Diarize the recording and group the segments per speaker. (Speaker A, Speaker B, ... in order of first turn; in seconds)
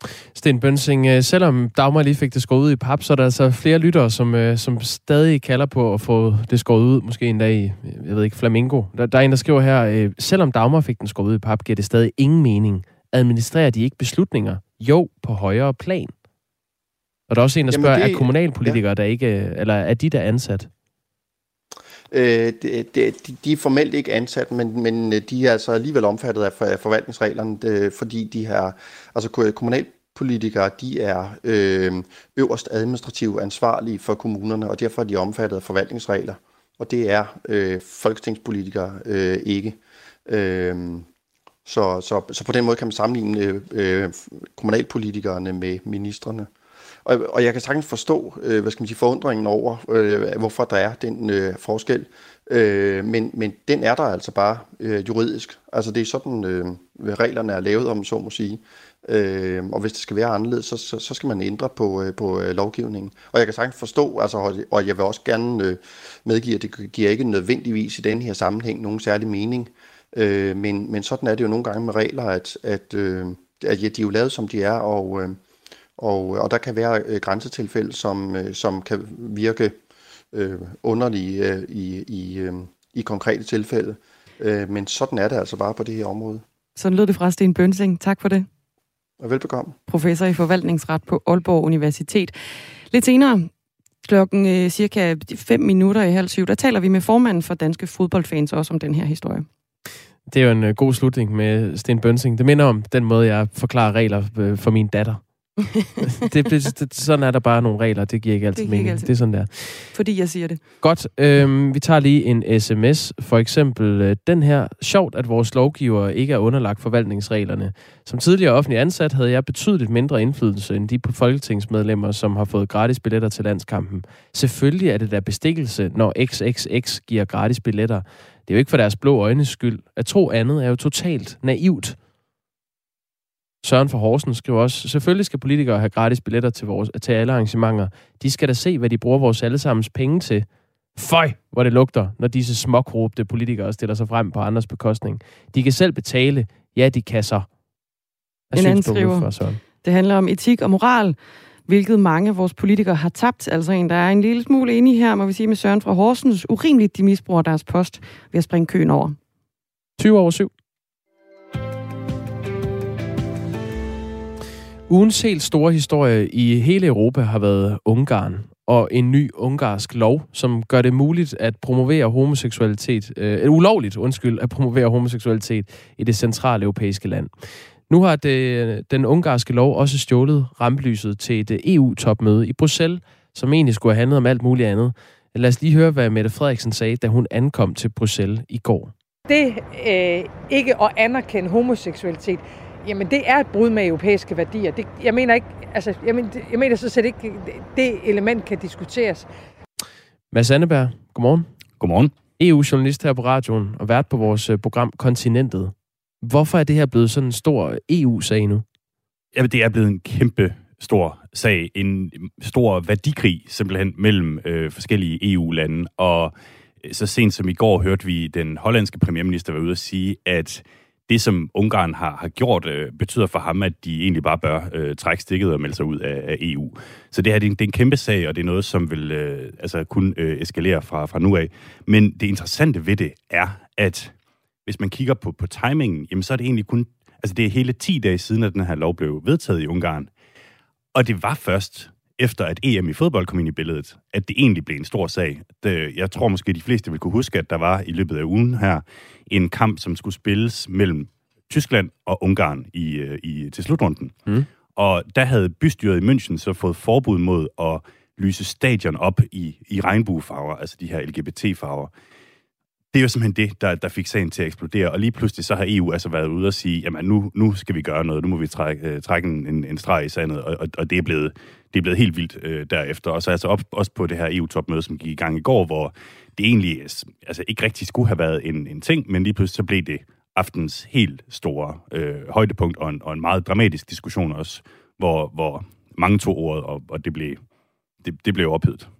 Speaker A: 0.3-16.1, 17.3-20.7, 100.3-105.2, 106.1-110.0, 110.8-132.0, 133.6-147.5, 148.5-149.6, 160.0-160.5, 164.9-177.3, 177.9-188.9, 200.3-201.5, 202.4-208.7
Speaker B: 17.7-18.8, 22.1-41.1, 41.6-46.5, 47.0-75.4, 76.0-79.8, 80.3-86.4, 89.2-89.8
Speaker C: 86.8-88.5, 89.9-92.3, 92.9-93.5, 94.0-99.5, 108.6-109.1, 109.9-110.6, 148.6-151.2, 151.7-159.2
Speaker D: 189.3-199.3
Speaker E: 201.8-202.1, 209.3-234.1, 234.7-240.1, 240.9-254.2, 254.8-261.9, 262.9-287.4, 288.0-288.9